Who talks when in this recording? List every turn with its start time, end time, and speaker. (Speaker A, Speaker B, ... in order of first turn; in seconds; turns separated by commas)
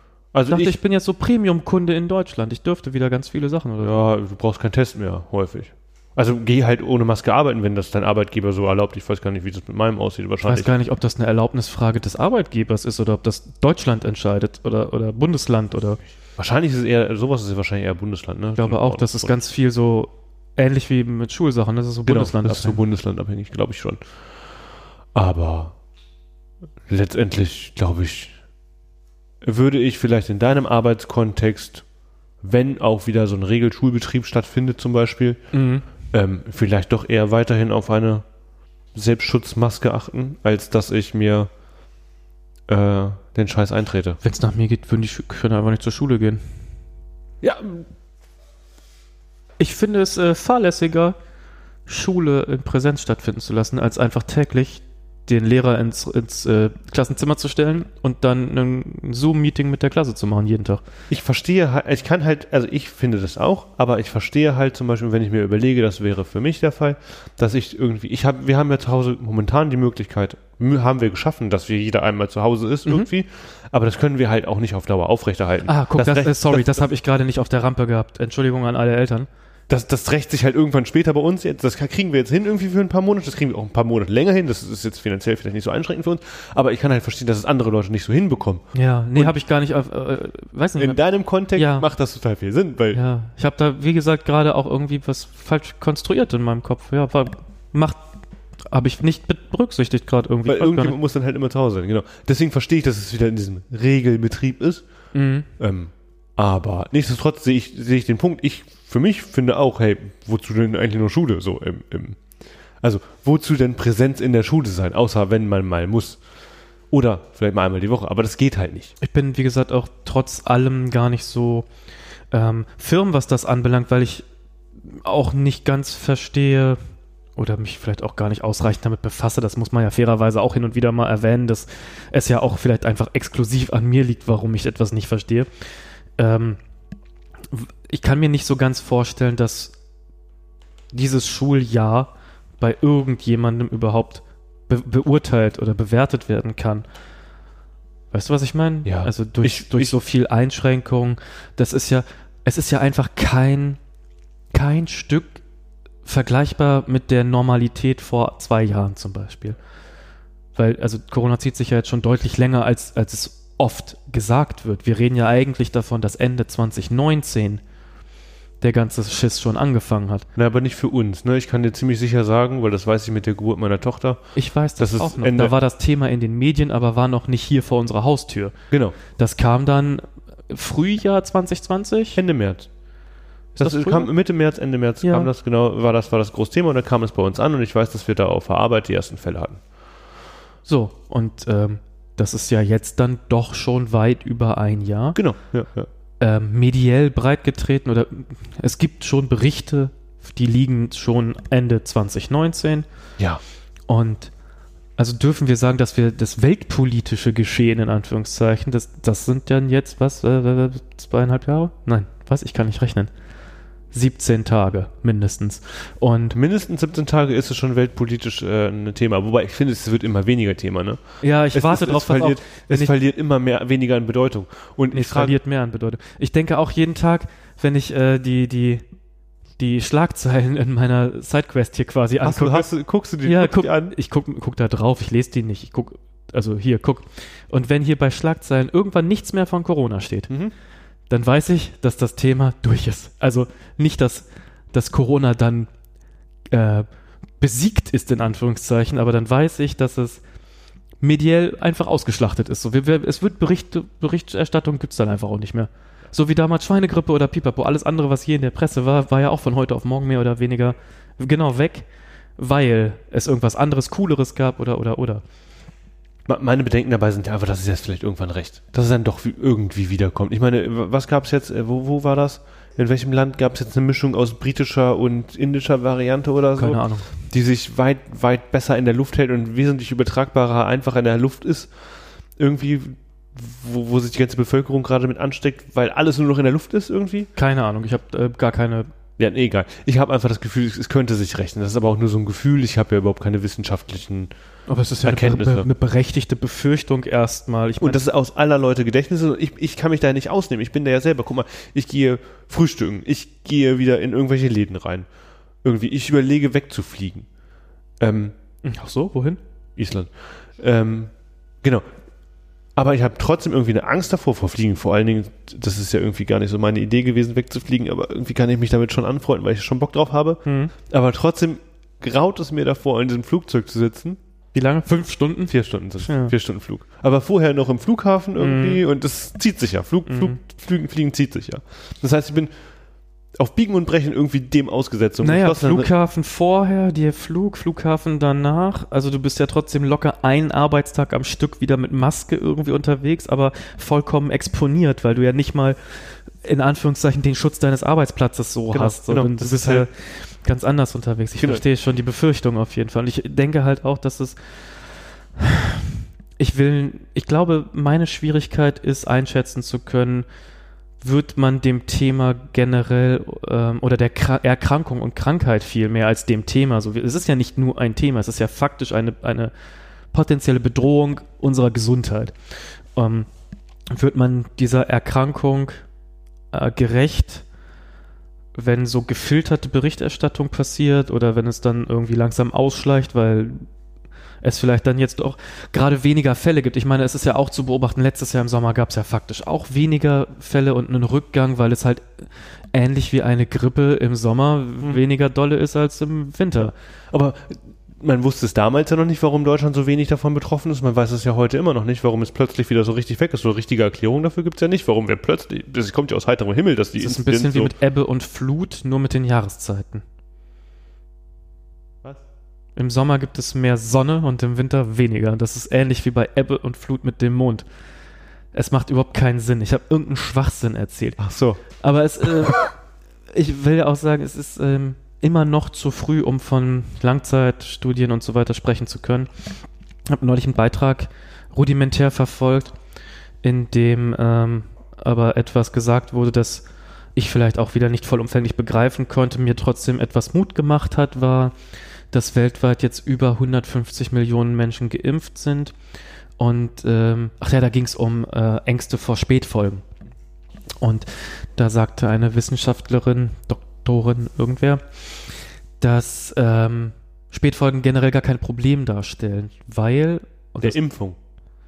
Speaker A: 0.3-0.7, Speaker B: 0.5-4.0, Speaker A: 3.8-10.7, Speaker B: 10.4-16.0, Speaker A: 16.4-19.3, Speaker B: 18.6-22.8, Speaker A: 22.1-24.0, Speaker A: 25.1-25.7, Speaker A: 26.9-28.4, Speaker A: 29.4-31.8, Speaker A: 32.4-35.4, Speaker B: 35.5-35.8, Speaker A: 36.1-38.2, Speaker A: 38.9-41.5, Speaker A: 42.7-44.2, Speaker B: 44.2-46.4, Speaker A: 47.4-47.8, Speaker B: 49.6-51.1, Speaker B: 51.9-60.8, Speaker A: 61.1-76.8, Speaker B: 75.7-79.3, Speaker A: 79.7-89.3, Speaker B: 88.7-91.0, Speaker A: 90.8-93.0, Speaker B: 91.5-91.8, Speaker B: 92.9-98.0, Speaker B: 98.7-101.0, Speaker A: 100.5-104.8, Speaker B: 105.1-105.5, Speaker A: 105.6-112.2, Speaker A: 112.8-116.2, Speaker A: 116.9-118.9, Speaker B: 119.0-121.7, Speaker B: 122.3-124.2, Speaker B: 124.9-126.8, Speaker B: 127.4-135.5, Speaker B: 136.2-136.6, Speaker B: 137.5-139.7, Speaker B: 140.9-146.8, Speaker B: 148.1-153.8, Speaker A: 148.8-149.9, Speaker B: 154.5-155.4, Speaker B: 156.0-159.6, Speaker B: 160.6-167.6, Speaker B: 168.6-170.2, Speaker A: 170.3-174.2, Speaker B: 174.3-178.5, Speaker A: 174.8-175.5, Speaker A: 178.7-179.0, Speaker B: 179.1-182.2, Speaker A: 182.2-182.7, Speaker A: 183.5-189.6, Speaker B: 183.6-184.1, Speaker B: 185.0-185.3, Speaker B: 190.7-195.2, Speaker A: 195.2-195.9, Speaker B: 196.2-202.8, Speaker B: 203.9-204.3, Speaker B: 205.0-213.1, Speaker B: 213.9-216.3, Speaker A: 216.3-221.0, Speaker B: 221.2-222.9, Speaker A: 221.5-225.3, Speaker B: 224.9-228.8, Speaker B: 229.6-232.7, Speaker A: 232.2-233.9, Speaker B: 233.2-240.3, Speaker B: 241.1-245.7, Speaker B: 246.5-246.9, Speaker B: 247.4-250.2, Speaker B: 251.0-265.2, Speaker A: 266.3-281.7, Speaker B: 276.6-277.1, Speaker A: 282.4-287.3, Speaker B: 287.4-288.9, Speaker A: 289.2-294.3, Speaker B: 294.7-298.0, Speaker A: 295.0-295.7, Speaker A: 297.8-305.1, Speaker A: 305.6-307.2, Speaker A: 308.0-308.3, Speaker B: 308.6-309.4, Speaker A: 309.8-311.1, Speaker A: 312.8-324.2, Speaker B: 320.4-320.7, Speaker B: 324.5-326.3, Speaker A: 325.5-332.5, Speaker B: 328.4-328.8, Speaker B: 330.1-330.4, Speaker A: 333.4-335.9, Speaker B: 335.2-345.8, Speaker B: 346.4-354.4, Speaker A: 348.7-349.9, Speaker B: 355.4-360.3, Speaker B: 361.0-369.5, Speaker B: 370.1-372.3, Speaker B: 372.9-373.3, Speaker B: 373.9-375.8, Speaker B: 376.5-377.4, Speaker B: 378.6-383.6, Speaker B: 384.4-396.7, Speaker A: 396.7-407.7, Speaker B: 407.0-410.0, Speaker B: 412.8-417.6, Speaker B: 418.5-421.2, Speaker A: 421.2-421.6, Speaker B: 421.7-422.7, Speaker B: 423.3-429.3, Speaker B: 430.1-432.7, Speaker B: 433.4-436.6, Speaker B: 437.1-441.5, Speaker B: 442.1-445.7, Speaker B: 446.4-449.8, Speaker B: 450.8-454.8, Speaker B: 455.8-460.8, Speaker A: 460.6-461.2